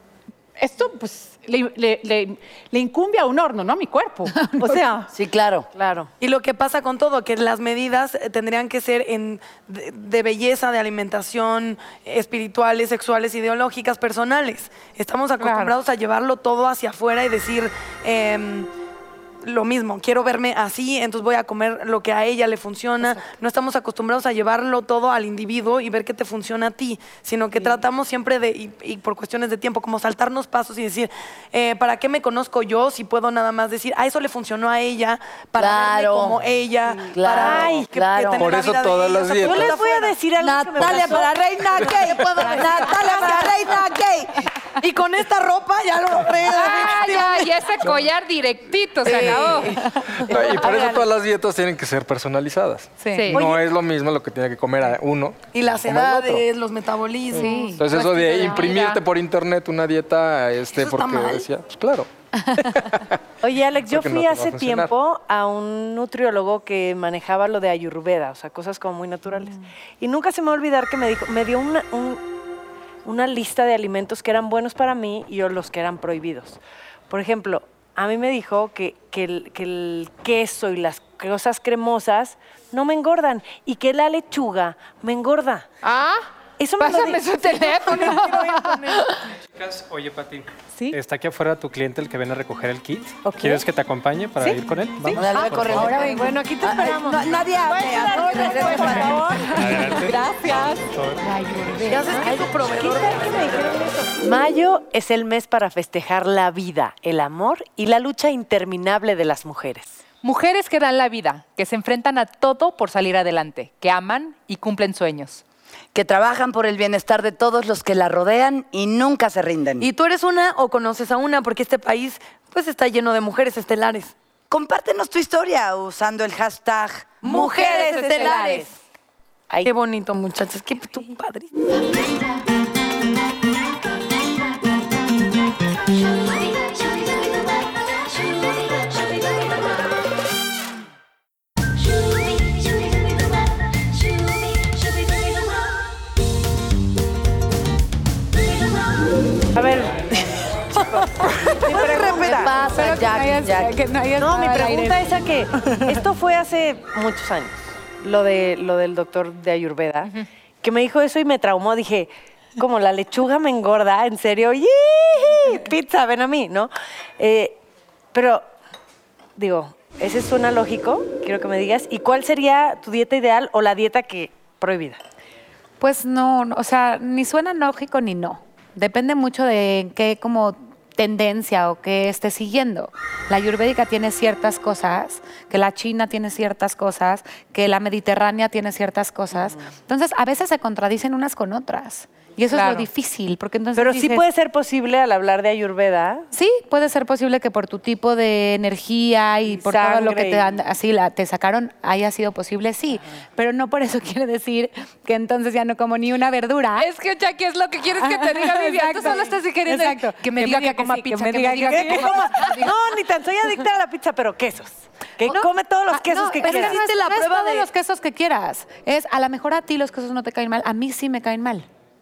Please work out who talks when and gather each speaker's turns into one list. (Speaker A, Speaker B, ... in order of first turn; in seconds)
Speaker A: 0.6-5.1, 96.0-96.2
Speaker B: 4.3-4.8, 53.0-53.4, 57.3-58.7, 62.5-62.9, 100.1-100.5, 152.6-155.1, 175.8-194.2, 196.3-206.9, 208.0-212.6, 215.2-221.7
Speaker C: 5.1-5.7, 35.6-36.4, 37.0-38.7, 40.4-44.5, 49.0-49.7, 95.1-99.3, 115.9-119.9, 124.5-128.6, 151.7-153.7
Speaker D: 5.8-6.1, 15.4-15.7, 37.4-37.9, 39.4-43.5, 63.4-72.2, 73.0-85.7, 86.6-88.4, 93.3-93.6, 94.4-100.6, 101.7-110.0, 127.2-128.7, 149.5-151.1, 151.6-152.6, 154.2-167.6, 168.1-168.5, 169.4-175.0, 189.3-189.6, 193.8-196.3, 199.5-200.5, 211.6-216.8
Speaker E: 6.2-18.7, 19.4-40.1, 41.8-43.6, 44.8-47.6, 49.1-49.8, 50.3-51.0, 55.5-57.6, 60.7-61.5, 87.7-89.0, 101.8-103.5, 119.8-124.1, 129.6-131.5, 216.4-217.7
Speaker F: 38.4-39.9, 50.2-56.4, 57.8-63.1, 63.9-64.9
Speaker G: 46.5-49.8, 53.1-53.5, 57.4-59.0, 85.8-86.3, 86.8-89.2, 97.7-99.2, 110.2-115.4, 127.3-128.6, 192.5-192.9, 206.8-212.7
Speaker H: 89.6-95.9, 99.5-101.2